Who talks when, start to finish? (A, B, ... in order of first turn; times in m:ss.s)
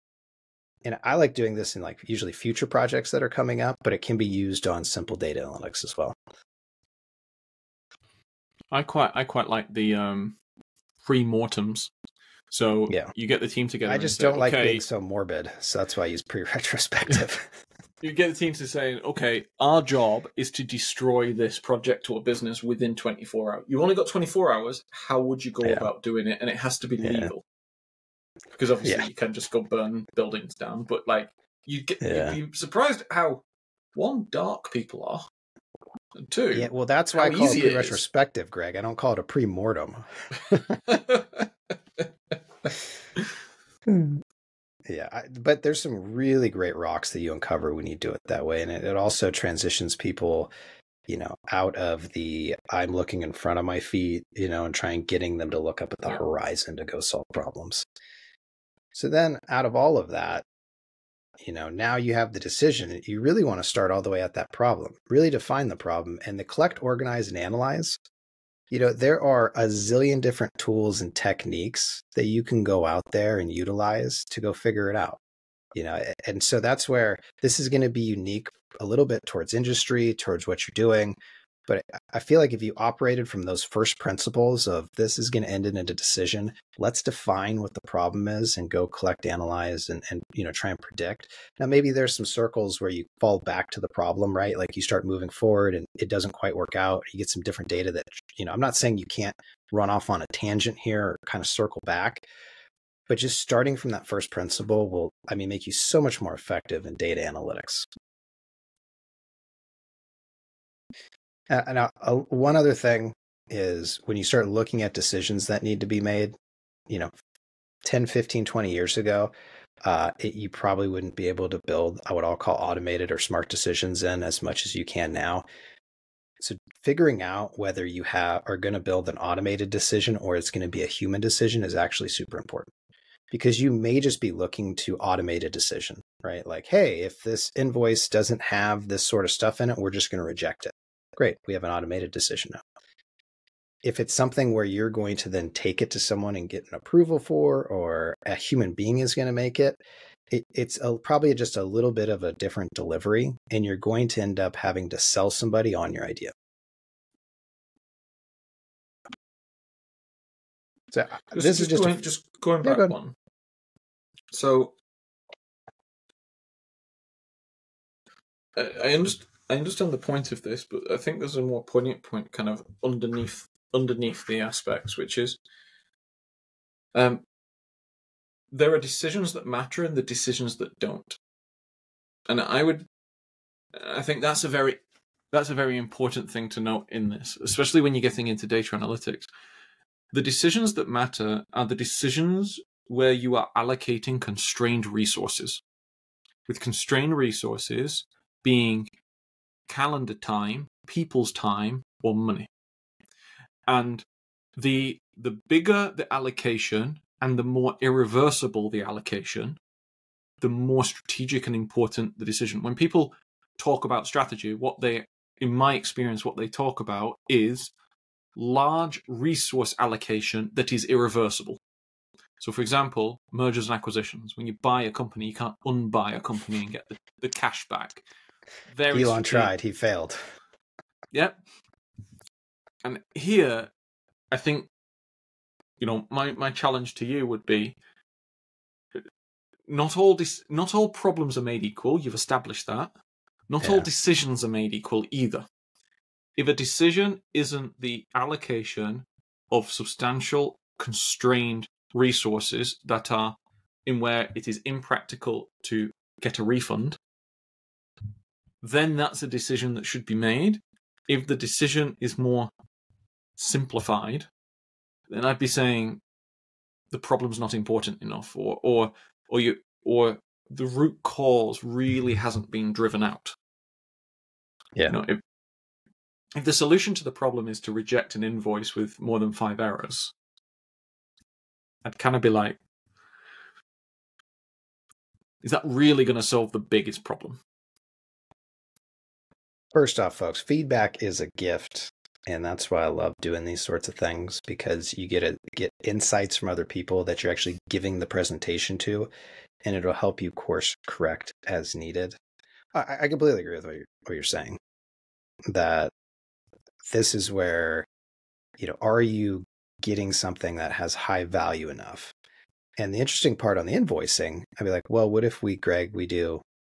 0:00.8-0:06.2 A
0:08.7-0:10.4 B
0:11.0-0:11.9 B
0:12.5-0:14.8 B
0:13.9-0:17.6 A
0:18.0-0:27.4 B
0:27.0-0:27.3 A
0:28.5-0:33.4 B
0:32.0-0:32.4 A
0:33.9-0:35.3 B
0:36.1-0:38.0 B
0:36.5-0:40.8 A
0:40.8-0:42.1 B
0:42.6-0:43.2 B
0:43.9-0:44.2 A
0:44.8-0:50.5 A
0:51.1-0:57.8 A
0:58.9-1:00.4 A
1:01.4-1:08.0 A
1:08.7-1:15.2 A
1:15.7-1:42.2 A
1:43.1-1:47.9 A
1:51.5-1:56.4 A
1:57.8-1:59.3 A
1:59.8-2:05.4 A
2:06.4-2:12.7 A
2:13.3-2:22.6 A
2:23.8-2:36.3 A
2:40.9-2:41.9 A
2:41.3-2:43.2 B
2:42.6-2:42.9 A
2:44.3-2:44.7 B
2:48.6-2:55.4 B
2:56.9-2:57.2 B
2:58.5-3:01.2 B
3:02.3-3:02.9 B
3:03.7-3:04.8 B
3:05.3-3:09.3 B
3:10.1-3:15.6 B
3:16.5-3:18.9 B
3:19.7-3:22.5 B
3:23.7-3:24.0 B
3:24.6-3:29.6 B
3:30.4-3:37.7 B
3:38.4-3:41.6 B
3:42.4-3:48.0 B
3:48.7-3:49.5 B
3:48.9-3:50.2 A
3:51.1-3:51.4 B
3:52.8-3:53.7 B
3:54.3-3:54.7 B
3:55.8-3:57.7 B
3:59.7-4:02.9 B
4:03.5-4:05.5 B
4:03.6-4:03.9 A
4:06.4-4:17.0 B
4:18.6-4:22.5 B
4:23.4-4:24.3 B
4:25.1-4:26.0 B
4:26.9-4:33.3 B
4:34.9-4:35.2 B
4:36.4-4:40.1 B
4:41.8-4:42.6 B
4:45.4-4:47.4 B
4:49.7-4:59.1 A
4:59.6-5:02.2 A
5:02.7-5:04.6 A
5:05.5-5:05.9 A
5:06.8-5:07.9 A
5:08.6-5:12.1 A
5:12.8-5:16.4 A